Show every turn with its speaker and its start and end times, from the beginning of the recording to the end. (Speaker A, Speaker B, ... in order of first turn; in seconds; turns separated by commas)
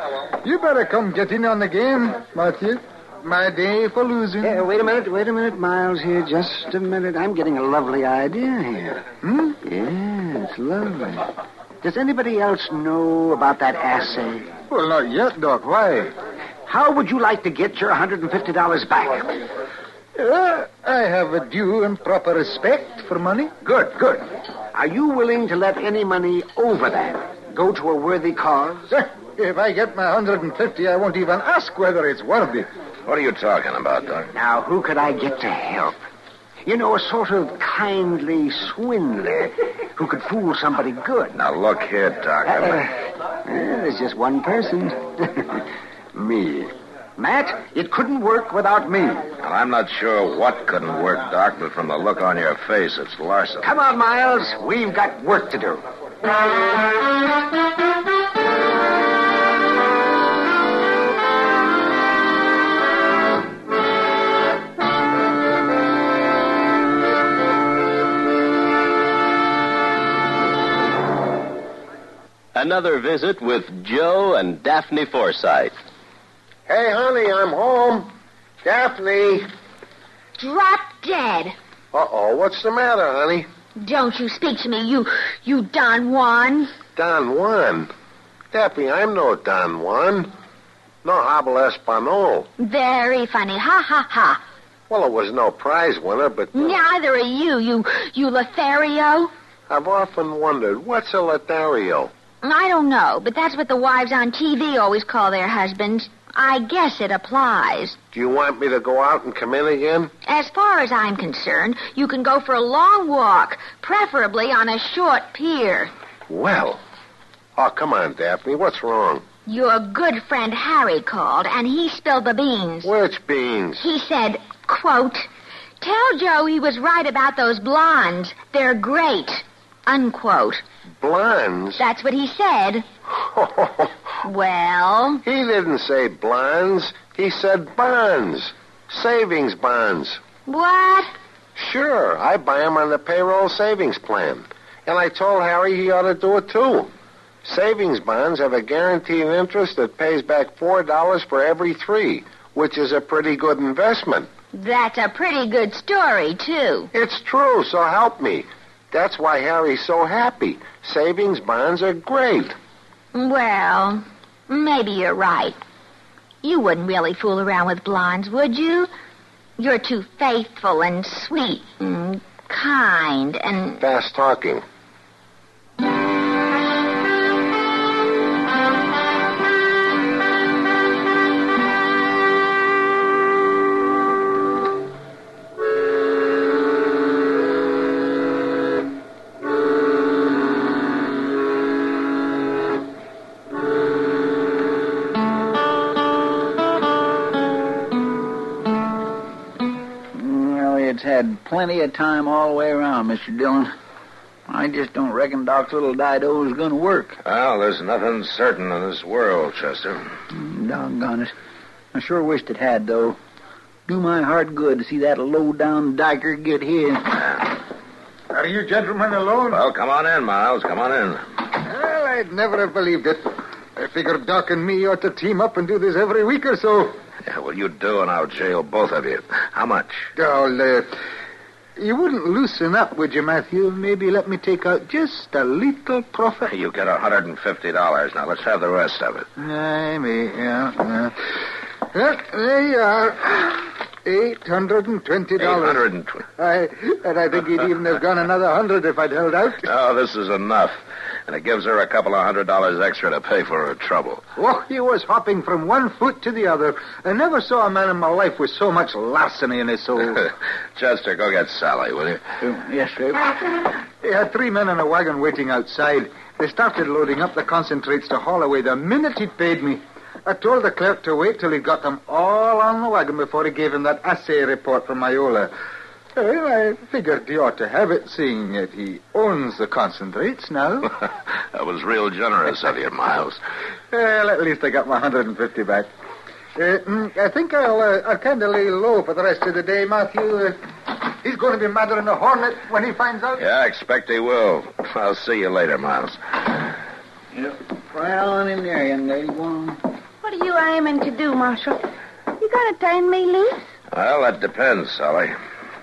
Speaker A: 0.4-4.6, Speaker B: 4.4-9.1, Speaker A: 9.2-9.6, Speaker B: 9.6-14.5, Speaker A: 14.7-16.1, Speaker B: 16.7-19.4, Speaker A: 20.2-23.6, Speaker B: 23.6-28.9, Speaker A: 28.9-32.7, Speaker C: 33.1-34.3, Speaker B: 34.3-36.0, Speaker B: 36.6-41.4, Speaker C: 41.3-42.9, Speaker B: 42.5-42.9, Speaker B: 43.4-49.3, Speaker C: 49.4-53.7, Speaker B: 53.6-55.8, Speaker D: 72.5-75.7, Speaker E: 76.7-78.1, Speaker E: 78.6-79.5, Speaker F: 80.4-81.5, Speaker E: 81.9-83.5, Speaker F: 83.8-86.7, Speaker E: 87.0-87.9, Speaker E: 88.5-90.3, Speaker E: 91.0-92.5, Speaker F: 92.6-94.4, Speaker E: 94.9-96.8, Speaker F: 96.5-99.3, Speaker E: 99.7-102.1, Speaker F: 102.4-108.0, Speaker E: 108.1-110.1, Speaker F: 110.2-115.9, Speaker E: 116.3-116.8, Speaker E: 117.6-119.2, Speaker F: 119.5-122.9, Speaker E: 122.8-123.8, Speaker F: 123.8-125.3, Speaker F: 125.8-130.6, Speaker E: 131.0-131.8, Speaker F: 131.8-132.8, Speaker E: 133.2-133.9, Speaker F: 134.2-135.2, Speaker E: 135.2-140.2, Speaker F: 140.5-141.1, Speaker E: 141.6-146.9, Speaker E: 147.4-154.3, Speaker F: 154.5-156.9, Speaker E: 156.9-162.6, Speaker F: 163.1-165.6, Speaker F: 166.4-168.9, Speaker F: 169.6-173.8, Speaker E: 173.8-174.6, Speaker G: 200.1-203.7, Speaker G: 204.5-207.2, Speaker C: 207.2-210.1, Speaker G: 210.3-211.3, Speaker G: 211.9-213.2, Speaker G: 213.9-217.1, Speaker A: 218.3-219.6, Speaker C: 219.5-221.2, Speaker A: 221.6-227.0, Speaker C: 227.2-230.1, Speaker A: 230.2-230.9, Speaker A: 231.8-236.5, Speaker C: 236.5-239.3, Speaker A: 239.4-241.2, Speaker A: 241.9-245.8, Speaker C: 245.4-246.2, Speaker A: 246.4-249.7, Speaker C: 249.6-254.2, Speaker A: 254.4-260.2, Speaker C: 260.8-262.2, Speaker G: 262.4-263.3, Speaker A: 264.0-275.5, Speaker A: 276.2-280.9, Speaker C: 281.5-283.4, Speaker A: 283.9-285.9, Speaker A: 286.6-293.4, Speaker C: 293.4-296.2, Speaker G: 297.4-299.8, Speaker H: 300.2-301.8, Speaker H: 302.4-303.7, Speaker C: 303.9-305.4